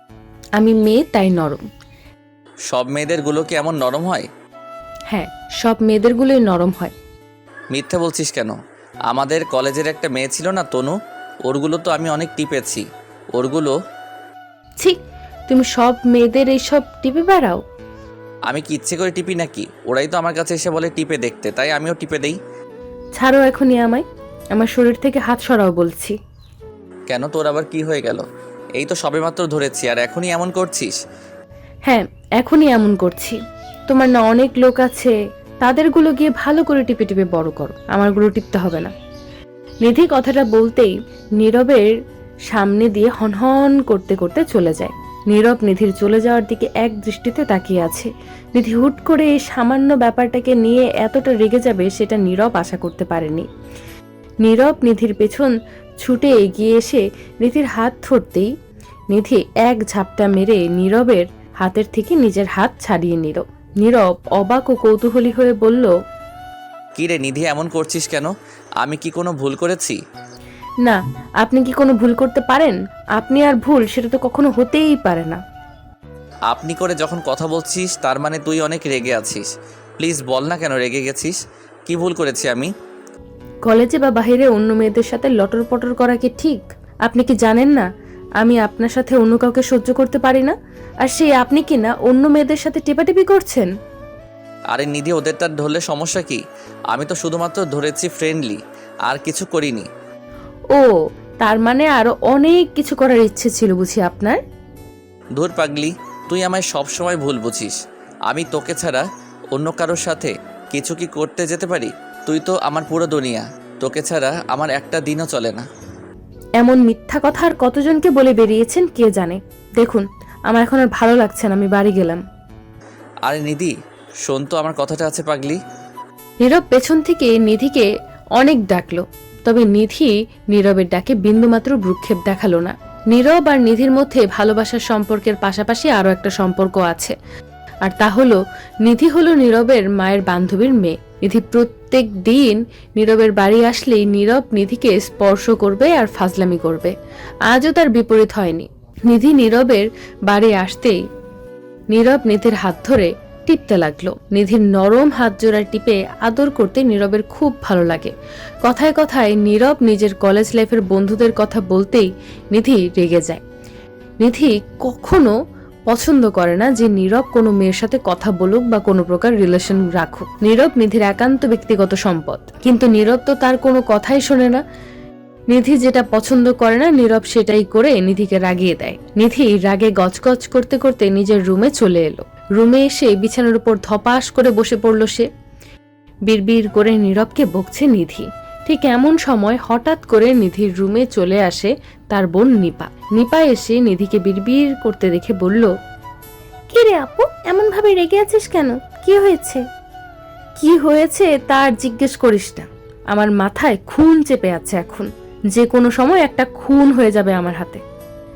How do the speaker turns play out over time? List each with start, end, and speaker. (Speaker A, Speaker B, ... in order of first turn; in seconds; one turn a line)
Speaker A: 0.6-1.6
Speaker B: 2.7-4.3
Speaker A: 5.1-6.9
Speaker B: 7.7-8.6
Speaker B: 9.1-10.9
Speaker B: 11.5-12.8
Speaker B: 13.3-13.7
Speaker A: 15.5-17.6
Speaker B: 18.5-22.4
Speaker A: 23.2-24.0
Speaker A: 24.6-26.1
Speaker B: 27.1-28.2
Speaker B: 28.8-31.0
Speaker A: 31.9-33.4
Speaker A: 33.9-38.9
Speaker A: 39.8-41.9
Speaker A: 42.5-53.5
Speaker A: 54.4-55.5
Speaker A: 56.0-58.5
Speaker A: 59.1-65.9
Speaker B: 67.0-68.3
Speaker B: 68.8-70.0
Speaker A: 70.8-75.4
Speaker B: 76.5-82.7
Speaker A: 83.7-87.9
Speaker A: 88.4-93.7
Speaker B: 94.7-99.9
Speaker A: 100.7-104.4
Speaker B: 105.4-107.8
Speaker B: 108.3-115.7
Speaker A: 116.6-122.2
Speaker B: 123.3-123.7
Speaker B: 124.2-125.6
Speaker A: 126.4-137.2
Speaker A: 137.8-146.9
Speaker A: 147.5-150.9
Speaker A: 151.9-158.1
Speaker A: 158.6-163.4
Speaker A: 164.2-165.3
Speaker A: 165.9-174.6
Speaker A: 175.5-185.2
Speaker A: 186.3-195.7
Speaker A: 196.7-199.6
Speaker A: 200.6-207.8